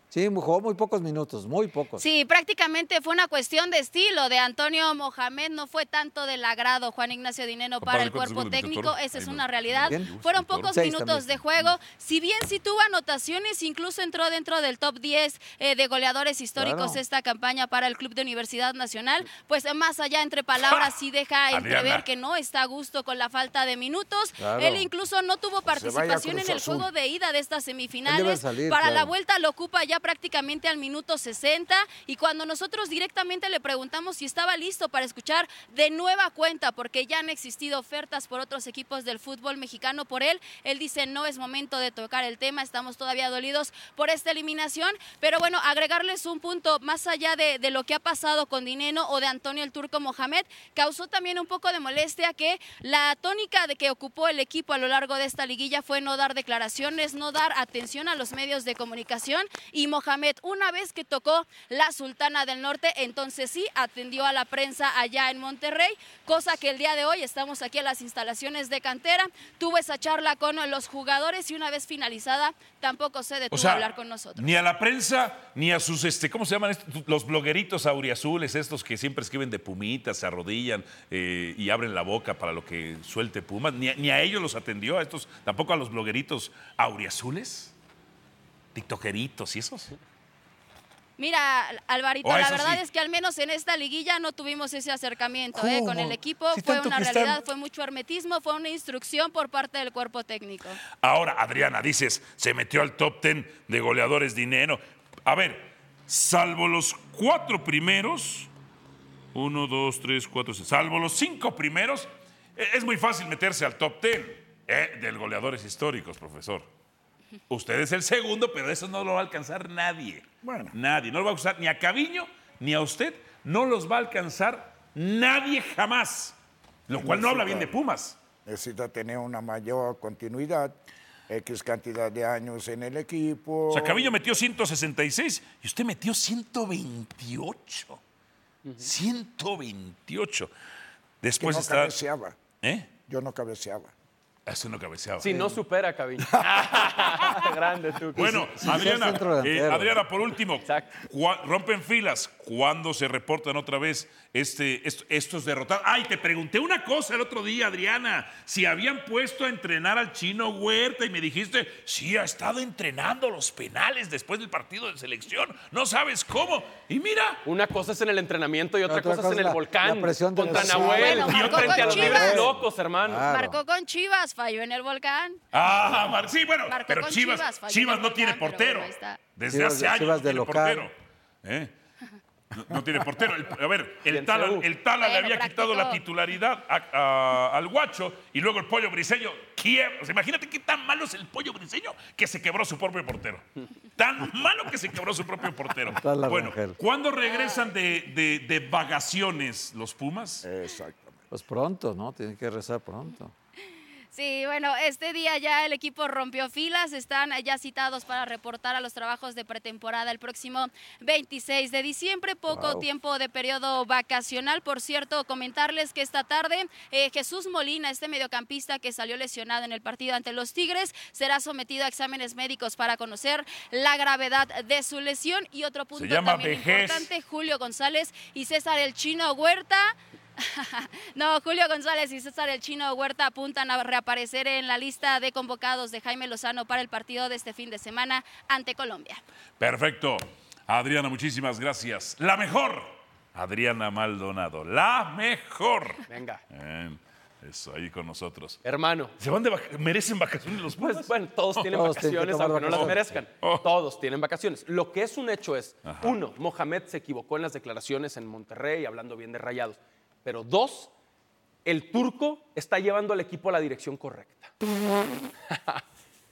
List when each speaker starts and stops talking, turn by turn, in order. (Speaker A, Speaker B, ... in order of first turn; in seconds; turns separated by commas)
Speaker A: 0.1-2.0, Speaker B: 2.0-74.5, Speaker C: 7.8-10.8, Speaker A: 10.7-11.3, Speaker A: 16.6-17.0, Speaker C: 21.5-22.1, Speaker A: 24.4-24.9, Speaker D: 25.7-26.9, Speaker A: 28.1-29.1, Speaker C: 73.5-87.7, Speaker C: 88.7-89.9, Speaker B: 91.2-100.8, Speaker C: 92.2-92.8, Speaker C: 95.5-97.4, Speaker C: 101.0-108.5, Speaker C: 109.3-116.7, Speaker C: 117.5-126.3, Speaker D: 120.4-120.7, Speaker C: 126.9-128.2, Speaker D: 127.0-127.7, Speaker D: 128.4-130.7, Speaker D: 131.3-134.2, Speaker C: 133.7-138.0, Speaker C: 138.8-140.5, Speaker C: 141.2-142.0, Speaker D: 141.4-142.4, Speaker C: 142.6-142.9, Speaker D: 143.1-143.9, Speaker C: 144.4-145.6, Speaker E: 145.2-148.9, Speaker C: 146.4-147.5, Speaker C: 148.1-167.4, Speaker A: 148.2-150.1, Speaker E: 150.6-151.0, Speaker E: 167.4-173.2, Speaker A: 168.8-173.6, Speaker B: 170.8-172.5, Speaker C: 171.2-172.4, Speaker B: 173.2-175.4, Speaker C: 175.5-180.9, Speaker B: 176.7-179.2, Speaker A: 179.5-180.9, Speaker C: 181.4-181.7, Speaker C: 182.5-200.4, Speaker E: 184.1-184.7, Speaker B: 185.0-186.0, Speaker A: 195.9-196.8, Speaker B: 197.2-197.7, Speaker D: 200.4-201.2, Speaker A: 201.3-203.3, Speaker B: 204.1-239.2, Speaker A: 212.5-212.8, Speaker C: 225.9-227.1, Speaker C: 239.6-248.6, Speaker E: 246.1-246.4, Speaker E: 248.6-249.1, Speaker C: 249.2-251.8, Speaker E: 250.8-260.9, Speaker A: 251.7-253.2, Speaker C: 252.6-253.7, Speaker C: 255.8-256.2, Speaker E: 261.6-264.5, Speaker E: 265.5-265.8